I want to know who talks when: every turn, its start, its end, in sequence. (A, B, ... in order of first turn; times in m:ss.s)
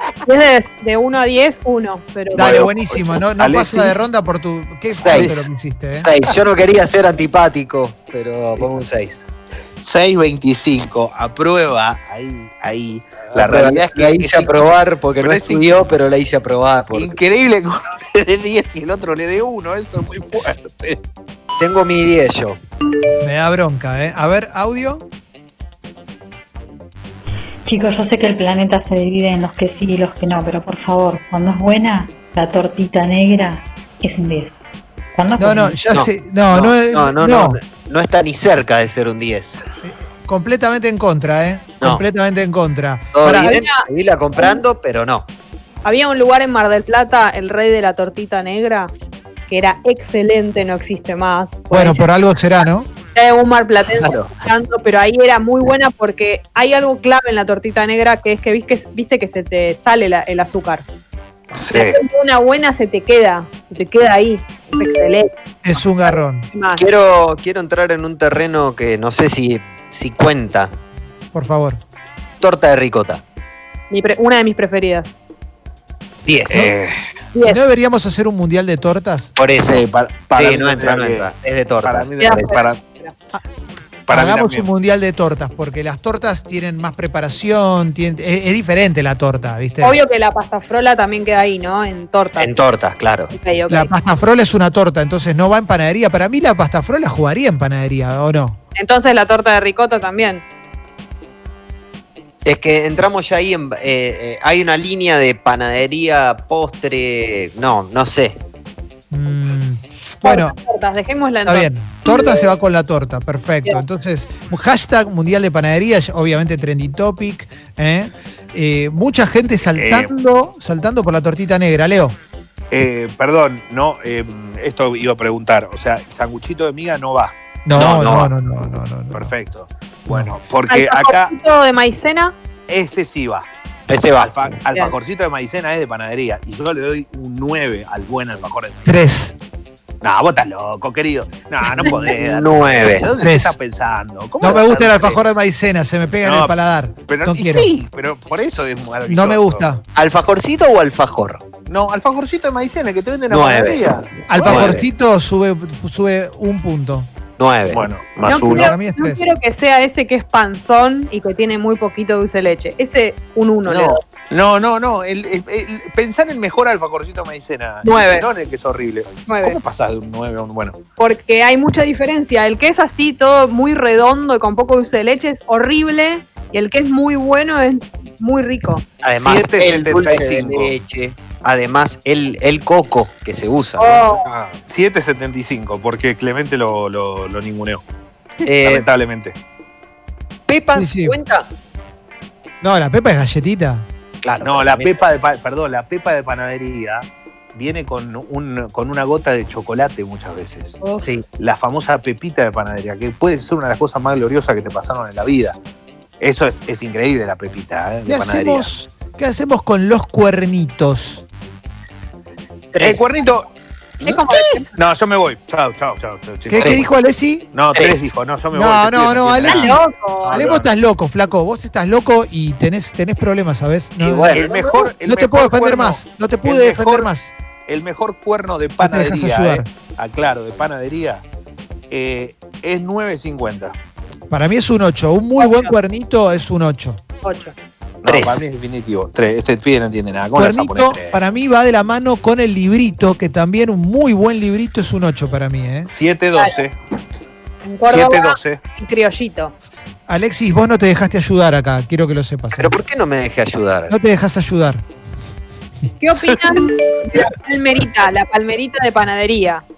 0:00.2-0:02.7 A
0:02.3-0:04.0 B
0:02.3-0:06.1 C
0:04.9-0:05.3 D
0:05.0-0:05.4 B
0:05.9-0:09.2 D
0:09.8-0:14.5 B
0:13.3-0:17.1 D
0:15.2-0:15.6 B
0:16.9-0:21.0 B
0:21.6-0:22.6 D
0:23.2-0:25.0 C
0:27.6-0:34.5 E
0:35.1-0:35.8 E
0:35.4-0:37.6 C
0:35.9-0:39.6 D
0:39.8-0:43.6 C
0:43.1-0:45.2 D
0:43.3-0:43.8 A
0:44.4-0:44.6 A
0:45.8-0:48.9 A
0:49.5-0:52.1 A
0:51.7-0:52.9 C
0:53.1-1:00.8 A
0:54.0-0:54.3 D
1:01.5-1:02.0 B
1:01.7-1:05.3 A
1:05.6-1:06.5 C
1:06.0-1:06.9 A
1:06.8-1:10.7 D
1:11.3-1:11.8 C
1:12.4-1:13.2 D
1:13.9-1:15.2 A
1:16.2-1:16.7 D
1:16.5-1:17.0 B
1:17.3-1:17.6 A
1:17.4-1:19.3 C
1:19.4-1:22.5 D
1:19.6-1:21.3 B
1:21.8-1:22.8 B
1:22.2-1:23.1 A
1:24.1-1:24.7 B
1:24.1-1:30.0 C
1:29.8-1:32.6 A
1:32.4-1:33.3 D
1:33.3-1:33.9 A
1:33.7-1:38.6 C
1:38.8-1:40.4 A
1:42.4-1:48.4 D
1:49.1-1:50.5 C
1:50.2-1:52.5 A
1:51.4-2:02.2 C
1:59.7-2:00.1 B
2:02.7-2:08.2 B
2:07.6-2:09.3 C
2:07.7-2:08.3 D
2:09.1-2:11.3 B
2:10.7-2:12.3 A
2:12.7-2:13.5 B
2:13.9-2:14.3 D
2:14.2-2:19.0 B
2:18.8-2:19.3 C
2:20.0-2:25.2 B
2:21.8-2:23.1 D
2:23.2-2:23.6 C
2:24.4-2:27.7 C
2:26.2-2:26.5 B
2:27.1-2:29.6 B
2:29.0-2:29.8 C
2:29.9-2:31.4 D
2:31.7-2:34.8 B
2:33.3-2:34.8 D
2:34.3-2:37.1 C
2:37.4-2:37.8 D
2:37.7-2:38.7 B
2:38.2-2:44.0 A
2:38.3-2:39.2 C
2:43.8-2:50.8 B
2:47.8-2:48.2 A
2:49.3-2:49.6 A
2:51.0-2:58.8 A
2:59.0-3:04.1 D
2:59.1-3:00.7 B
3:03.8-3:04.2 A
3:04.2-3:07.8 B
3:08.4-3:08.8 D
3:08.6-3:09.4 B
3:10.5-3:11.5 D
3:10.7-3:11.2 C
3:12.6-3:13.9 C
3:14.2-3:15.0 D
3:14.4-3:20.8 B
3:21.4-3:25.6 B
3:26.2-3:28.7 B
3:28.0-3:31.2 C
3:32.7-3:33.0 D
3:32.8-3:33.5 B
3:34.0-3:34.7 A
3:34.7-3:36.8 B
3:36.5-3:37.5 C
3:36.5-3:36.8 D
3:37.5-3:40.7 B
3:37.7-3:38.1 D
3:38.5-3:39.8 C
3:39.5-3:40.4 A
3:40.3-3:44.4 C
3:44.0-3:44.6 D
3:44.3-3:47.1 B
3:45.0-3:47.3 C
3:47.7-3:51.2 B
3:48.8-3:49.7 C
3:51.9-3:53.8 B
3:54.3-3:57.0 C
3:55.4-3:55.7 A
3:57.2-3:57.5 A
3:58.0-4:01.2 B
3:58.0-3:58.4 D
4:00.4-4:05.9 C
4:05.9-4:06.7 B
4:07.6-4:09.5 A
4:07.8-4:08.6 B
4:10.1-4:12.7 C
4:12.5-4:13.9 D
4:13.9-4:14.8 C
4:16.0-4:19.6 A